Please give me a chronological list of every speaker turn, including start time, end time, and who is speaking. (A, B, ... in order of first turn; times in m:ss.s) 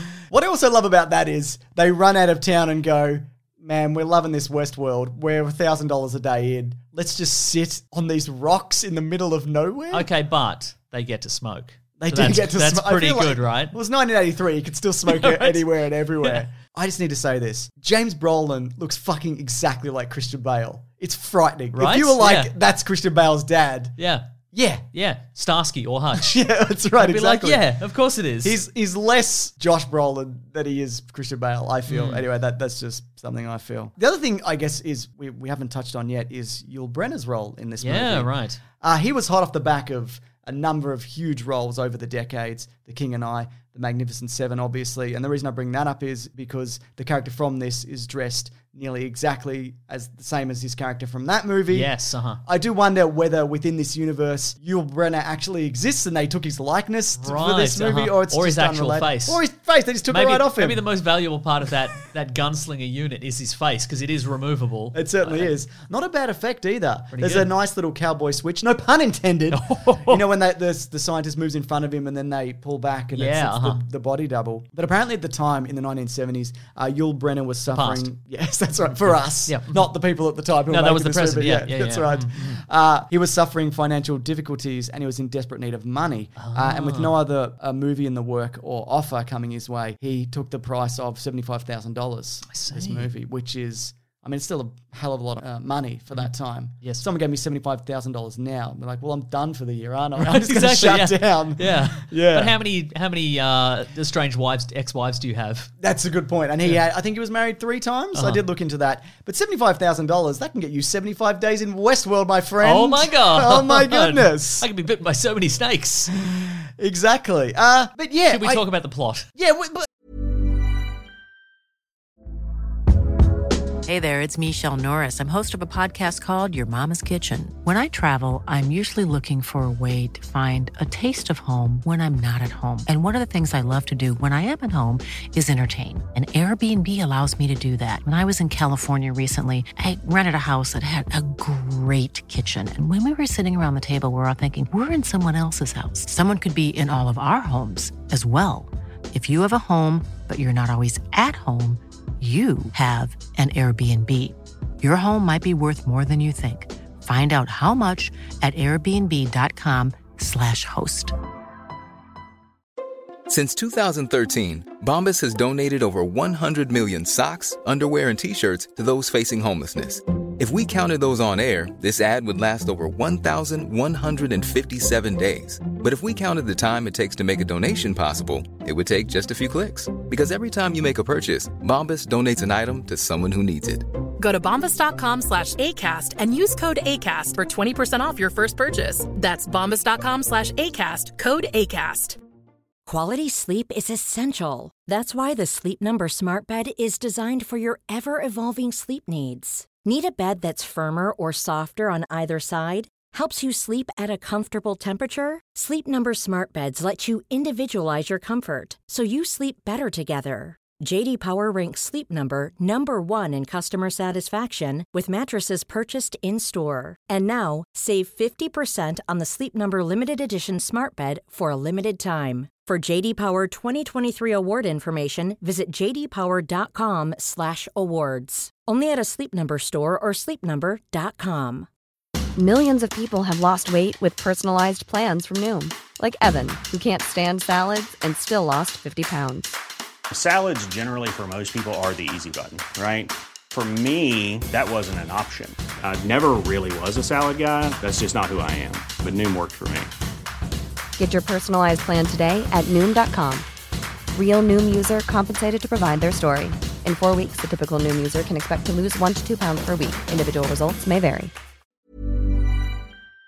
0:00.3-0:10.1 A
0:09.9-0:13.7 B
0:12.0-0:24.0 A
0:15.1-0:15.6 B
0:21.7-0:22.5 B
0:24.0-0:24.3 B
0:24.5-0:24.8 A
0:24.9-0:26.4 B
0:26.1-0:27.6 A
0:27.0-0:28.6 B
0:28.4-0:51.9 A
0:31.9-0:32.2 B
0:37.8-0:38.6 B
0:51.7-0:52.4 B
0:52.4-1:00.8 A
0:57.2-0:59.4 B
1:00.1-1:05.5 B
1:04.9-1:42.6 A
1:07.1-1:07.5 B
1:09.5-1:10.3 B
1:13.1-1:13.8 B
1:17.7-1:18.1 B
1:19.0-1:19.9 B
1:20.7-1:22.6 B
1:26.4-1:27.2 B
1:32.5-1:33.1 B
1:40.2-1:45.7 B
1:45.8-1:54.7 A
1:48.1-1:48.4 B
1:52.6-1:56.1 B
1:56.2-1:58.6 A
1:58.3-1:59.2 B
1:59.4-1:59.9 A
2:03.8-2:41.1 C
2:43.3-3:03.8 D
3:04.2-3:12.2 E
3:12.9-3:51.7 F
3:52.4-3:59.6 G
4:00.1-4:09.9 H
4:11.0-4:13.5 G
4:14.1-4:21.3 G